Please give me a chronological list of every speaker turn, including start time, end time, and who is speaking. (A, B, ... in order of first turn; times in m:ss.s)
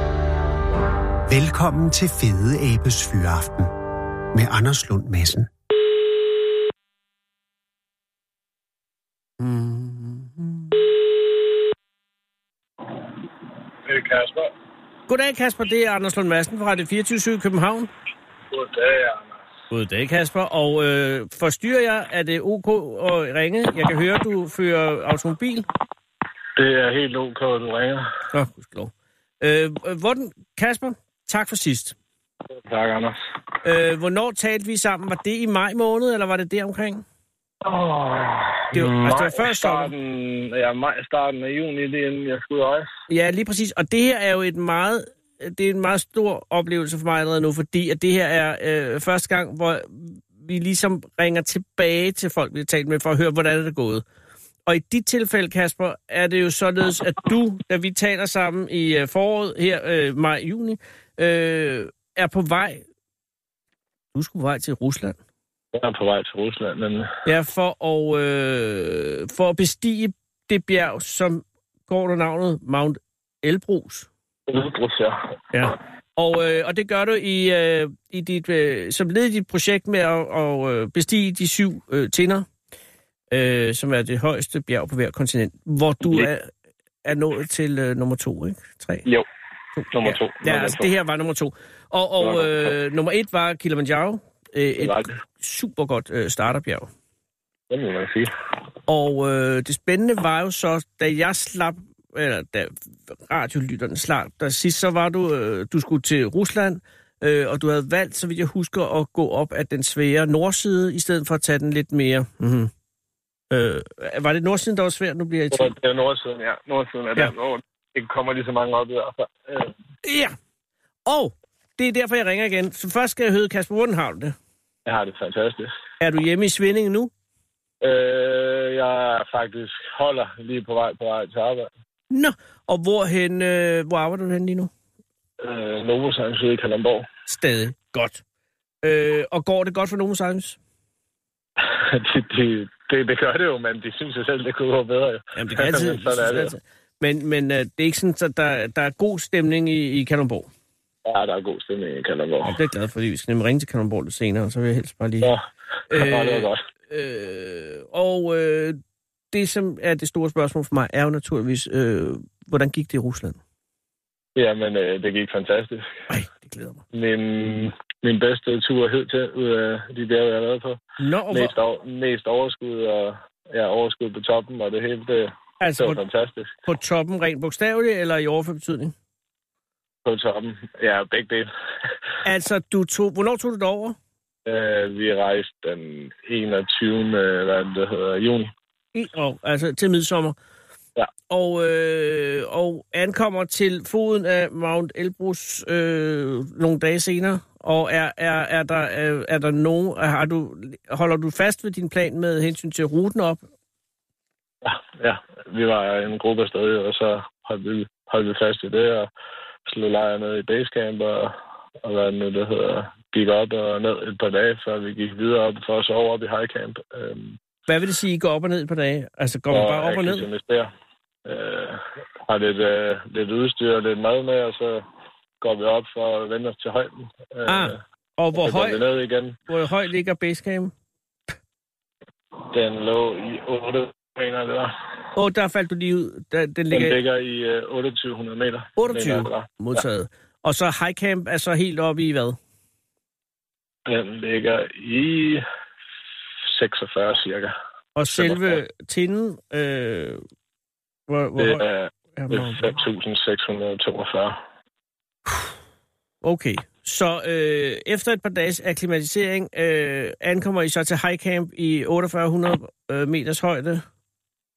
0:01.3-0:03.7 A
0:04.3-0:05.5 A
0:09.4-0:10.8 B
0:13.8-0:14.5 C
0:15.1-0:17.9 B
0:18.5-0:19.4 C
0:19.7-0:25.7 B
0:26.6-0:28.1 C
0:28.3-0:31.9 B
0:32.5-0:33.2 C
0:33.6-0:37.0 B
0:37.6-0:42.9 C
0:38.7-0:39.9 B
0:43.1-0:54.0 B
0:54.6-1:02.8 B
1:04.1-1:05.2 B
1:05.7-1:07.1 C
1:07.2-1:14.1 B
1:14.5-1:15.3 C
1:15.5-1:22.4 B
1:23.3-1:26.5 B
1:27.0-1:29.0 B
1:29.8-1:36.9 B
1:29.9-1:30.9 C
1:32.2-1:32.7 C
1:34.8-1:35.1 C
1:37.7-1:38.3 C
1:38.9-1:42.7 B
1:43.3-1:52.7 B
1:53.5-1:55.7 B
1:55.5-1:59.7 C
2:00.0-2:00.3 B
2:01.0-2:04.3 B
2:04.8-2:05.7 C
2:06.0-2:07.1 B
2:07.8-2:11.7 C
2:12.1-2:14.7 B
2:15.4-2:17.1 C
2:17.3-2:18.2 B
2:18.8-2:20.6 B
2:21.6-2:26.5 C
2:25.3-2:30.5 B
2:31.0-2:32.6 C
2:32.4-2:35.3 B
2:35.2-2:36.6 C
2:35.9-2:38.8 B
2:39.3-2:43.4 B
2:44.4-2:45.9 C
2:46.1-2:46.8 B
2:46.9-2:56.5 C
2:51.0-2:51.5 B
2:55.6-2:56.0 B
2:56.6-2:58.9 B
3:00.0-3:01.5 C
3:02.2-3:04.0 B
3:04.4-3:08.5 C
3:08.9-3:10.3 B
3:11.3-3:23.4 B
3:24.6-3:29.1 C
3:29.7-3:37.4 C
3:37.7-3:40.2 B
3:39.5-3:40.7 C
3:41.2-3:44.8 C
3:45.4-3:47.8 C
3:47.4-3:48.8 B
3:48.3-3:49.4 C
3:49.5-3:50.7 B
3:52.5-3:54.8 C
3:55.1-3:57.0 B
3:56.7-3:59.8 C
3:58.8-4:02.4 B
4:03.8-4:05.4 C
4:06.5-4:07.5 C
4:08.0-4:10.2 B
4:08.1-4:08.6 C
4:11.1-4:11.6 B
4:11.4-4:14.4 C
4:12.2-4:12.7 B
4:16.2-4:23.8 B